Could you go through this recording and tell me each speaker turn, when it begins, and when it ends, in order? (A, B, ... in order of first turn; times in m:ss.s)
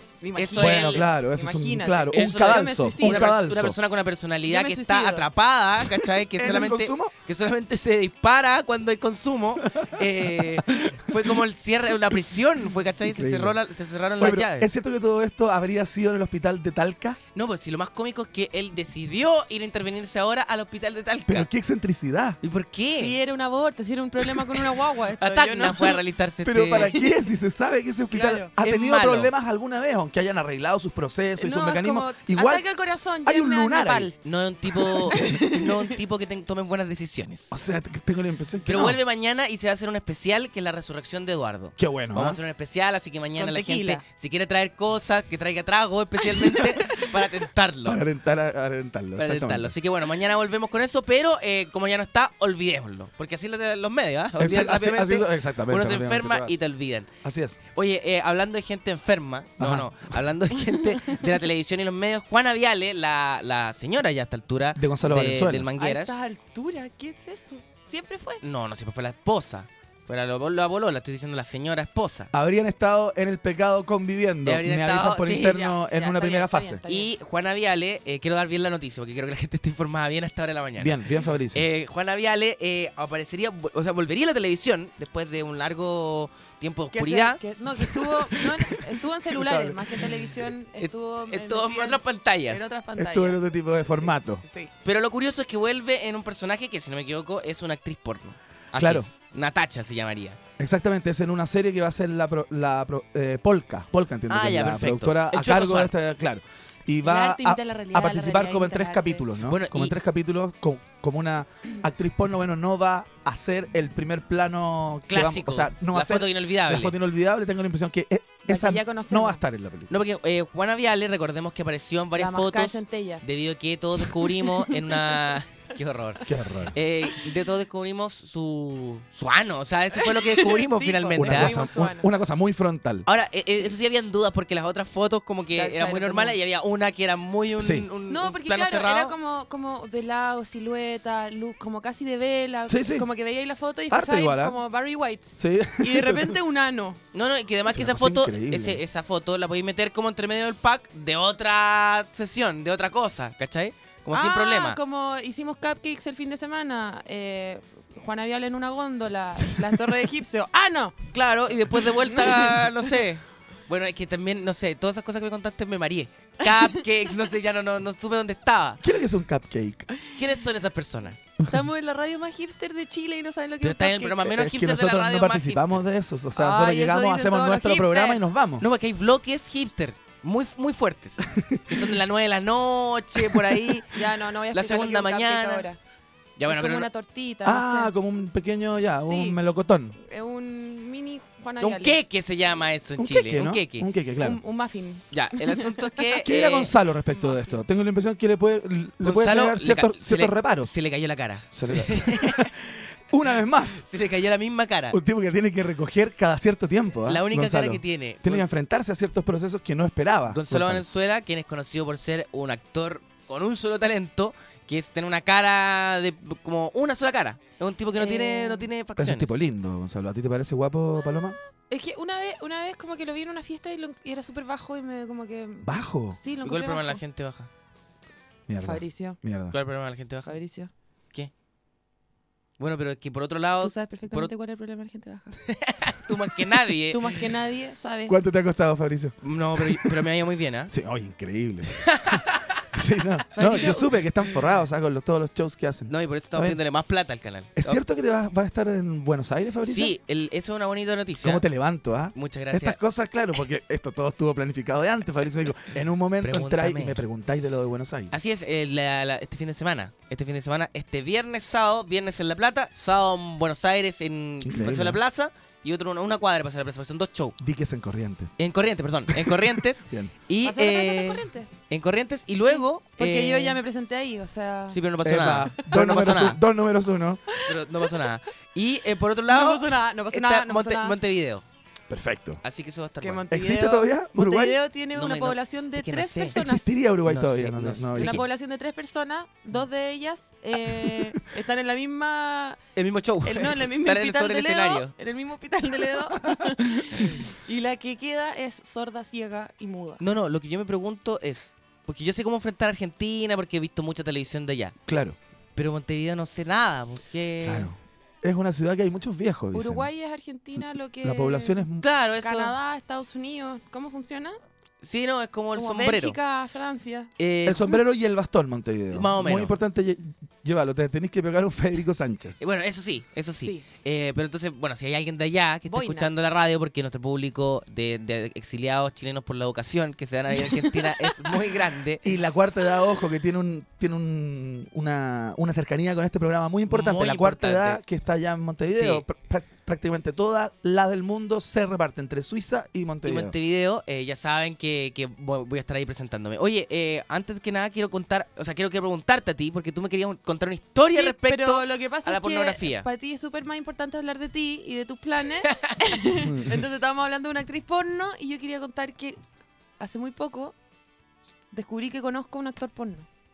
0:00.2-0:03.4 A
0:00.4-0:01.1 B
0:00.5-0:03.8 C
0:02.1-0:14.7 B
0:04.5-0:05.3 A
0:06.4-0:07.1 C
0:13.0-0:13.6 C
0:14.2-0:17.2 C
0:17.4-0:21.5 B
0:21.3-0:22.4 C
0:22.4-0:23.2 B
0:23.0-0:26.0 A
0:25.2-0:27.0 B
0:26.4-0:32.6 C
0:28.1-0:28.5 A
0:28.6-0:29.3 B
0:31.4-0:34.2 A
0:33.2-0:34.1 C
0:34.2-0:37.6 B
0:34.9-0:35.9 A
0:37.5-0:39.0 C
0:38.6-0:48.0 B
0:41.8-0:42.4 C
0:43.4-0:44.0 A
0:47.8-0:49.7 C
0:49.2-0:57.1 B
0:54.4-0:56.6 C
0:57.2-0:57.6 C
0:57.7-1:06.2 B
0:59.6-0:59.9 C
1:04.8-1:05.7 C
1:05.8-1:08.4 A
1:08.4-1:12.3 B
1:12.3-1:16.8 C
1:14.4-1:15.6 B
1:15.4-1:17.1 A
1:16.9-1:21.0 B
1:20.8-1:21.6 C
1:21.5-1:28.7 B
1:26.9-1:33.4 A
1:29.3-1:29.8 C
1:30.8-1:32.7 B
1:33.0-1:34.4 C
1:34.4-1:34.7 A
1:34.8-1:40.4 B
1:38.8-1:39.1 C
1:40.6-1:59.9 C
1:44.3-1:45.9 B
1:47.0-1:49.2 A
1:49.5-1:50.0 B
1:55.1-1:56.9 B
1:58.4-1:59.4 A
1:59.9-2:11.6 B
2:02.2-2:03.2 A
2:06.2-2:06.8 C
2:09.9-2:12.1 A
2:11.2-2:13.0 C
2:13.0-2:19.2 B
2:15.5-2:16.4 A
2:17.6-2:17.9 C
2:18.1-2:27.0 A
2:22.7-2:23.1 C
2:23.9-2:24.6 C
2:25.4-2:26.4 C
2:27.1-2:34.8 B
2:27.6-2:28.8 C
2:34.1-2:41.0 A
2:41.1-2:48.8 B
2:42.0-2:42.7 A
2:48.8-2:49.9 C
2:50.2-2:51.2 B
2:51.5-2:54.3 A
2:53.6-2:55.8 B
2:54.2-2:58.6 C
2:56.4-2:58.2 A
2:58.6-3:05.7 B
3:01.3-3:01.8 C
3:03.9-3:05.8 A
3:06.4-3:06.9 B
3:06.5-3:07.9 A
3:07.4-3:10.0 C
3:09.0-3:09.4 A
3:10.0-3:12.0 A
3:11.6-3:13.9 B
3:13.0-3:14.4 C
3:14.2-3:16.1 A
3:15.1-3:16.7 B
3:16.2-3:20.7 C
3:19.0-3:22.4 B
3:21.5-3:23.9 C
3:23.7-3:25.0 B
3:24.9-3:30.8 C
3:27.0-3:28.4 B
3:30.3-3:39.3 B
3:38.0-3:38.7 A
3:39.0-3:41.4 C
3:41.7-3:47.0 A
3:45.6-3:46.2 C
3:46.4-3:47.5 B
3:48.5-3:49.6 C
3:48.6-3:49.2 A
3:49.5-3:50.4 B
3:50.2-3:50.7 A
3:52.6-3:54.3 B
3:53.6-3:55.4 A
3:55.5-3:57.2 B
3:56.9-3:58.2 A
3:58.1-3:59.9 C
3:59.2-4:00.7 B
4:00.7-4:01.9 C
4:01.8-4:02.4 B
4:02.7-4:06.6 C
4:03.4-4:04.0 A
4:05.9-4:07.8 B
4:07.6-4:10.0 C
4:09.6-4:11.4 B
4:11.2-4:18.1 C
4:12.1-4:12.8 B
4:16.2-4:17.0 B
4:18.1-4:27.4 B
4:24.4-4:25.0 C
4:27.4-4:28.4 C
4:28.4-4:33.6 B
4:29.1-4:30.1 C
4:30.4-4:31.5 A
4:32.4-4:34.8 A
4:34.7-4:36.4 B
4:35.0-4:37.2 C
4:37.4-4:41.4 B
4:39.3-4:41.0 A
4:41.9-4:42.4 C
4:42.4-4:43.3 B
4:43.0-4:46.8 A
4:43.3-4:44.6 C
4:44.9-4:46.4 B
4:46.3-4:48.2 C
4:47.0-4:48.2 B
4:48.0-4:52.6 A
4:52.8-4:54.9 B
4:53.2-5:00.0 A
5:00.0-5:04.8 B
5:04.9-5:05.2 C
5:05.6-5:07.7 B
5:07.4-5:09.9 C
5:09.5-5:11.7 A
5:11.0-5:11.8 C
5:11.8-5:12.5 B
5:12.2-5:14.4 A
5:14.8-5:16.2 B
5:15.5-5:17.1 A
5:17.2-5:17.8 B
5:17.4-5:22.4 C
5:18.9-5:19.6 B
5:22.4-5:32.0 B
5:23.4-5:23.6 A
5:25.7-5:26.1 A
5:32.0-5:43.3 C
5:36.7-5:37.8 B
5:38.7-5:39.0 B
5:43.0-5:52.9 B
5:50.9-5:59.2 A
5:55.4-5:55.8 B
5:59.8-6:00.5 A
6:01.5-6:03.1 A